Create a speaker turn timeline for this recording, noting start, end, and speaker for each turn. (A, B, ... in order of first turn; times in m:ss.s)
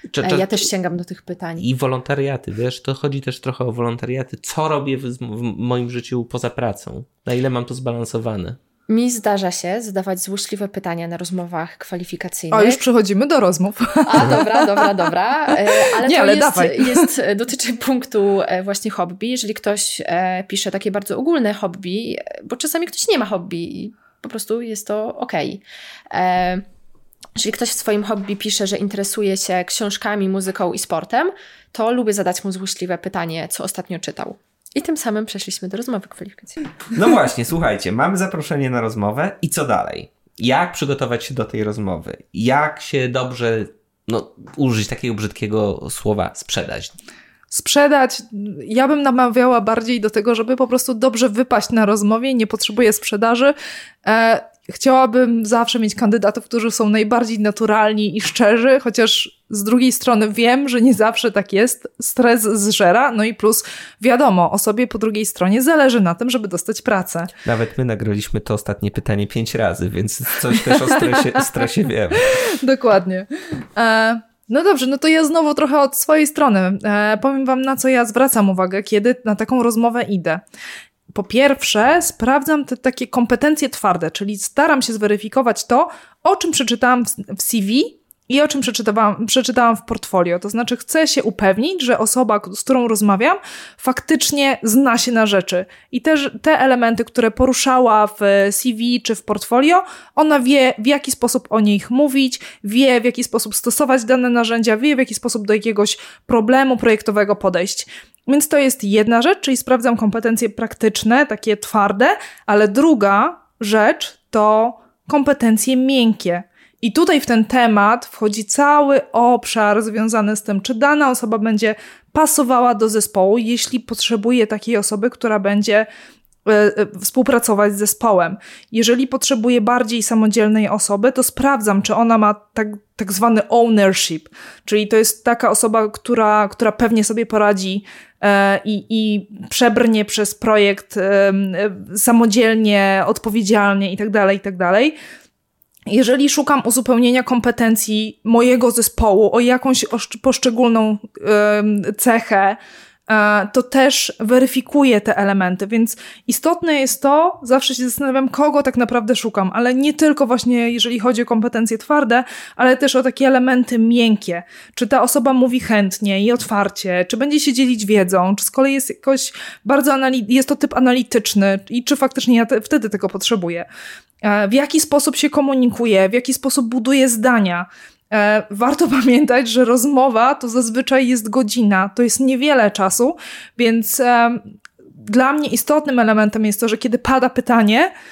0:00.1-0:00.7 A
0:00.2-0:01.7 B
0:01.6-0:08.6 A
0:08.9-0:12.8 B
0:12.5-0:17.1 C
0:14.0-0:26.6 B
0:27.4-0:36.7 B
0:36.9-0:47.0 A
0:47.5-1:07.3 C
1:07.4-1:12.4 A
1:12.3-1:20.4 C
1:21.1-2:05.9 C
2:06.4-2:25.0 C
2:25.9-2:53.7 C
2:54.2-3:04.4 C
3:05.0-3:07.9 C